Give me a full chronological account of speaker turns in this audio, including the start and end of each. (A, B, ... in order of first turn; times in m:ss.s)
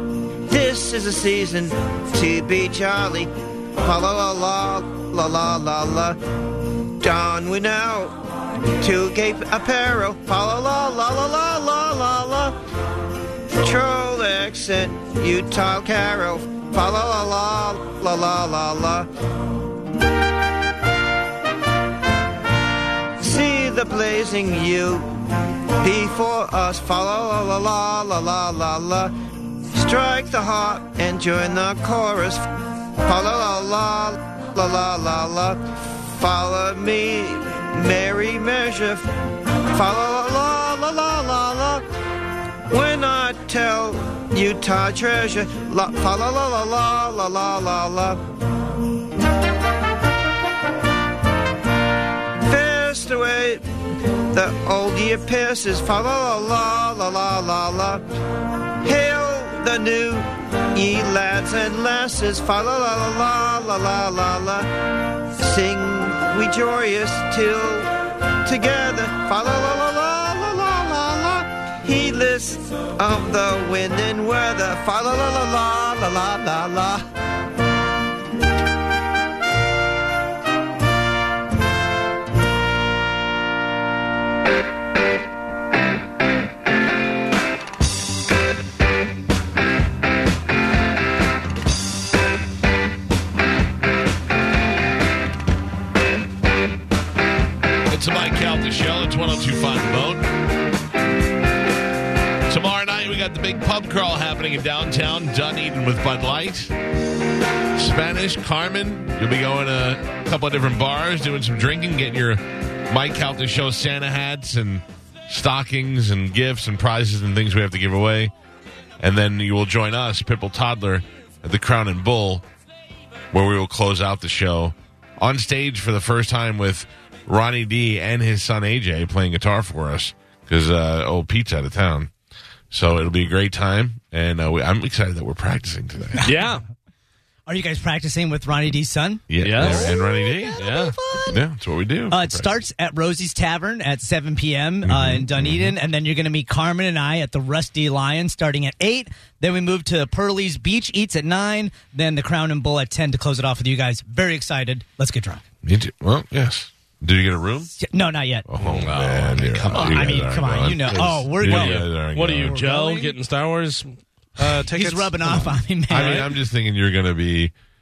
0:00.5-0:06.2 A
0:07.0-0:08.2 A
0:08.8-0:12.6 A
0:13.6-0:19.1 A
0:23.2-0:25.1 A
0:25.8-0:29.1 A
0:29.7-0:32.5 A
0:33.0-0:39.1 A
0:39.7-0:41.8 A
0:42.7-0:48.2 A
0:52.4-0:53.6 A
0:54.3-0:58.0 A
0:58.8-1:04.7 A
1:05.4-1:07.9 A
1:08.4-1:17.0 A
1:37.9-1:40.3 B
1:42.5-1:46.7 B
1:47.8-1:58.3 B
1:59.0-2:02.4 B
2:03.3-2:12.1 B
2:12.7-2:16.3 B
2:16.2-2:16.4 C
2:16.2-2:16.6 D
2:17.5-2:21.4 C
2:19.3-2:20.6 B
2:19.4-2:19.8 D
2:20.6-2:20.9 D
2:21.3-2:22.5 B
2:22.1-2:35.4 C
2:24.8-2:25.8 B
2:35.6-2:37.7 B
2:37.8-2:38.4 C
2:38.5-2:42.6 B
2:38.6-2:40.2 D
2:39.7-2:41.9 C
2:41.4-2:45.4 D
2:42.4-2:43.1 C
2:44.7-2:46.3 C
2:45.9-2:47.5 B